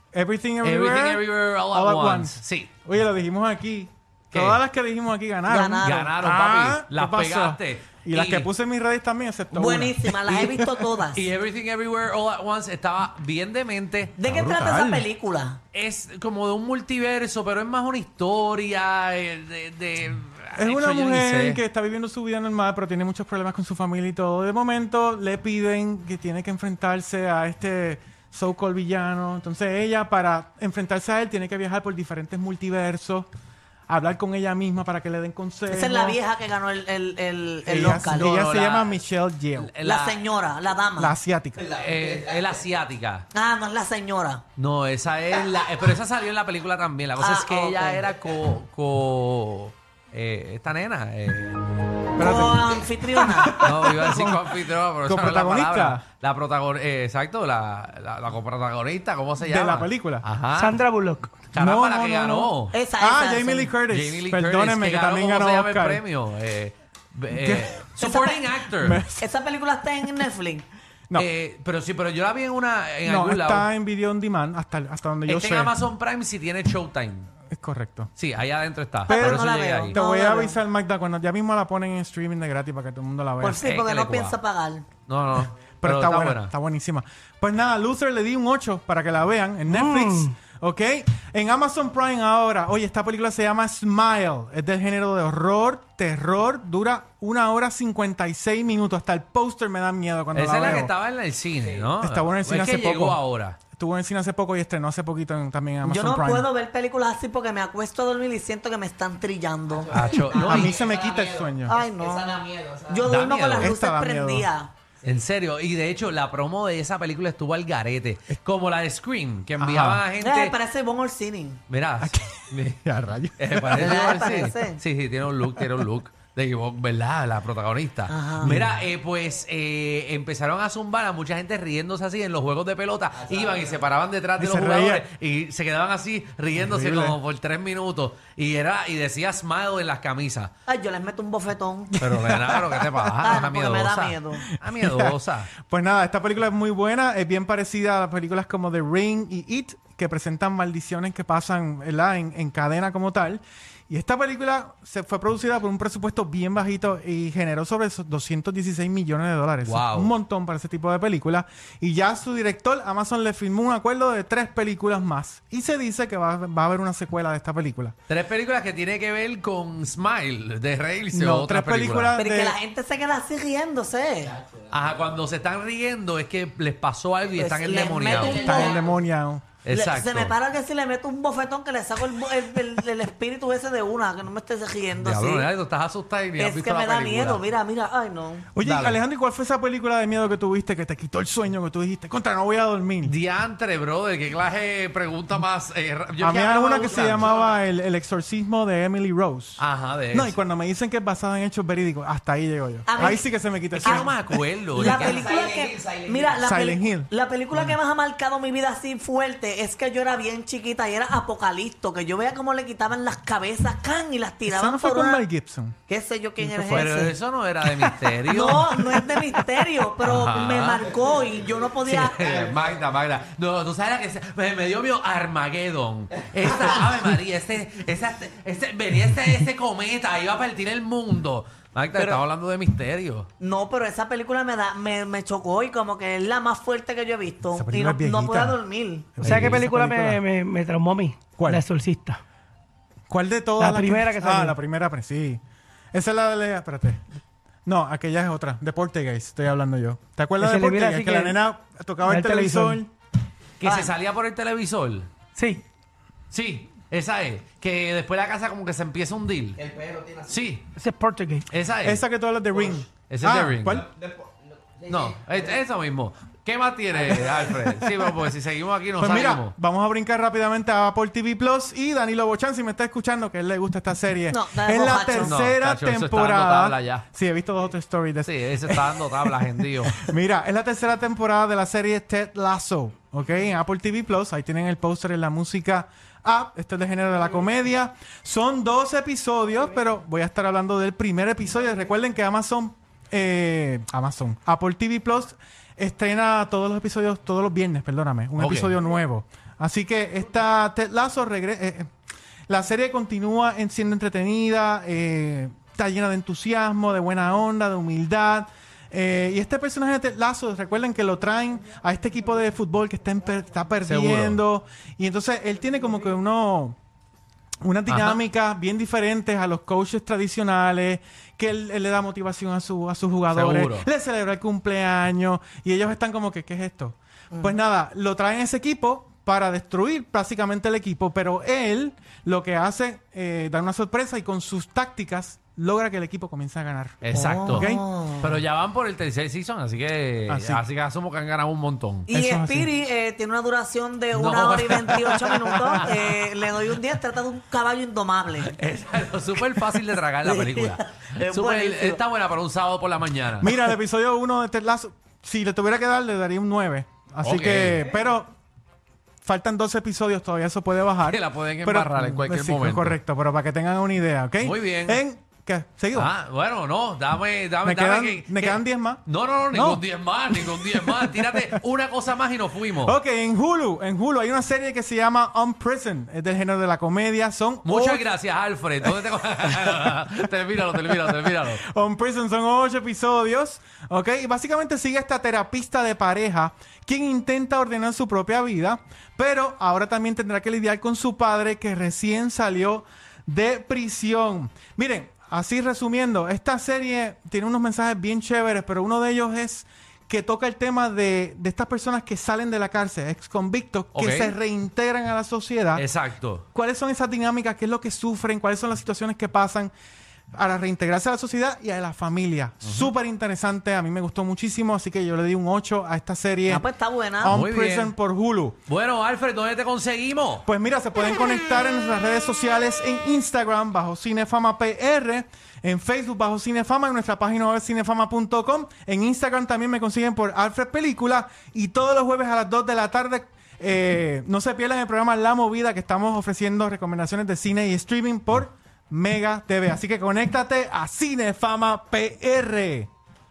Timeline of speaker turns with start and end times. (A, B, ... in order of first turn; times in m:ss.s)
0:00.1-0:10.8 A
0:00.6-0:02.7 B
0:04.3-0:04.6 B
0:05.5-0:06.1 C
0:05.8-0:08.5 B
0:09.5-0:11.3 C
0:11.1-0:14.3 B
0:14.2-0:15.6 C
0:14.3-0:15.0 A
0:15.7-0:21.6 B
0:20.6-0:33.3 A
0:33.9-0:36.2 A
0:35.7-0:38.4 C
0:37.7-0:39.7 A
0:38.2-0:39.0 B
0:39.6-0:40.3 B
0:39.8-0:41.1 C
0:41.0-0:41.7 A
0:41.8-0:43.3 B
0:43.3-0:44.4 C
0:44.6-0:51.8 B
0:47.2-0:48.0 C
0:52.2-0:53.9 C
0:52.2-0:54.4 A
0:53.6-1:00.8 B
0:55.0-0:56.0 A
0:59.4-1:00.2 A
1:00.5-1:01.5 D
1:01.5-1:02.8 B
1:01.6-1:06.0 A
1:02.7-1:03.8 C
1:03.9-1:09.0 B
1:07.4-1:07.8 A
1:08.0-1:08.5 C
1:08.8-1:09.3 A
1:09.2-1:10.7 C
1:11.2-1:13.7 B
1:13.0-1:15.7 A
1:15.3-1:17.3 B
1:17.5-1:18.1 A
1:18.2-1:20.0 B
1:19.1-1:20.6 C
1:19.1-1:23.6 A
1:23.4-1:24.9 C
1:23.6-1:24.4 B
1:25.1-1:26.5 B
1:25.8-1:40.9 A
1:29.7-1:30.3 D
1:40.3-1:43.6 B
1:42.0-1:43.2 A
1:43.7-1:46.5 A
1:45.8-1:50.7 C
1:49.9-1:50.8 B
1:50.5-1:51.8 A
1:51.6-1:54.7 C
1:53.1-1:53.7 B
1:53.6-1:54.5 A
1:55.0-2:00.6 B
1:59.6-2:00.0 A
2:00.2-2:01.6 C
2:01.7-2:02.8 B
2:02.0-2:04.0 A
2:03.4-2:20.5 B
2:03.7-2:04.8 C
2:08.1-2:08.6 C
2:08.4-2:08.8 A
2:14.4-2:15.1 A
2:16.6-2:17.2 A
2:20.7-2:21.9 C
2:21.9-2:23.4 A
2:22.0-2:25.5 B
2:23.2-2:24.4 C
2:24.7-2:48.0 A
2:39.6-2:40.1 B
2:48.1-2:52.2 B
2:51.1-2:52.6 A
2:52.2-2:54.4 C
2:54.7-2:58.7 B
2:57.4-2:58.8 C
2:58.4-2:59.4 A
2:59.6-3:00.4 B
2:59.7-3:05.5 C
3:05.0-3:07.5 B
3:06.4-3:08.5 C
3:08.5-3:13.1 A
3:08.6-3:09.0 B
3:13.0-3:17.4 B
3:16.2-3:24.2 A
3:19.6-3:20.4 B
3:22.9-3:23.3 C
3:23.8-3:25.3 B
3:23.8-3:24.1 C
3:24.7-3:35.2 C
3:26.4-3:27.8 A
3:34.5-3:35.8 A
3:35.9-3:37.1 C
3:36.4-3:37.1 A
3:36.7-3:39.2 B
3:38.2-3:42.3 C
3:40.0-3:40.9 B
3:41.8-3:53.3 B
3:53.4-3:59.3 C
3:57.5-3:58.6 A
3:59.2-4:00.2 A
3:59.2-4:02.2 D
3:59.2-3:59.6 B
4:03.1-4:05.4 A
4:03.6-4:04.6 D
4:05.9-4:07.0 A
4:07.7-4:12.9 A
4:10.4-4:11.4 D
4:12.0-4:12.8 D
4:13.6-4:15.1 B
4:13.6-4:13.9 C
4:15.4-4:15.6 D
4:16.3-4:20.7 B
4:20.8-4:21.5 D
4:21.5-4:22.0 B
4:21.8-4:23.9 A
4:23.1-4:23.9 B
4:24.8-4:29.5 B
4:27.3-4:28.2 A
4:29.0-4:38.9 A
4:34.3-4:35.4 C
4:35.2-4:37.0 B
4:38.3-4:40.0 B
4:39.9-5:01.9 A
4:58.4-4:58.8 B
5:02.5-5:16.8 A
5:13.8-5:14.4 B
5:17.6-5:37.8 A
5:17.9-5:18.2 B
5:23.3-5:23.9 B
5:37.0-5:37.7 B
5:37.1-5:38.4 C
5:38.2-5:42.1 B
5:40.3-5:40.6 A
5:42.1-5:42.7 A
5:42.1-5:48.6 C
5:44.1-5:46.8 B
5:45.0-5:45.9 A
5:48.4-5:53.5 B
5:50.2-5:52.0 C
5:53.4-5:58.3 A
5:57.2-5:57.8 B
5:59.2-6:06.1 A
6:01.1-6:03.0 B
6:04.4-6:05.0 B
6:05.9-6:13.0 B
6:07.6-6:11.6 A
6:12.8-6:18.0 A
6:17.6-6:21.6 B
6:18.8-6:20.0 A
6:20.7-6:45.8 A
6:43.9-6:44.4 B
6:45.8-6:46.4 B
6:46.5-6:49.7 A
6:50.4-6:56.7 A
6:52.6-6:52.9 B
6:56.5-6:57.4 C
6:57.2-6:58.6 A
6:57.3-6:58.0 B
6:58.7-7:00.5 B
7:00.4-7:22.9 A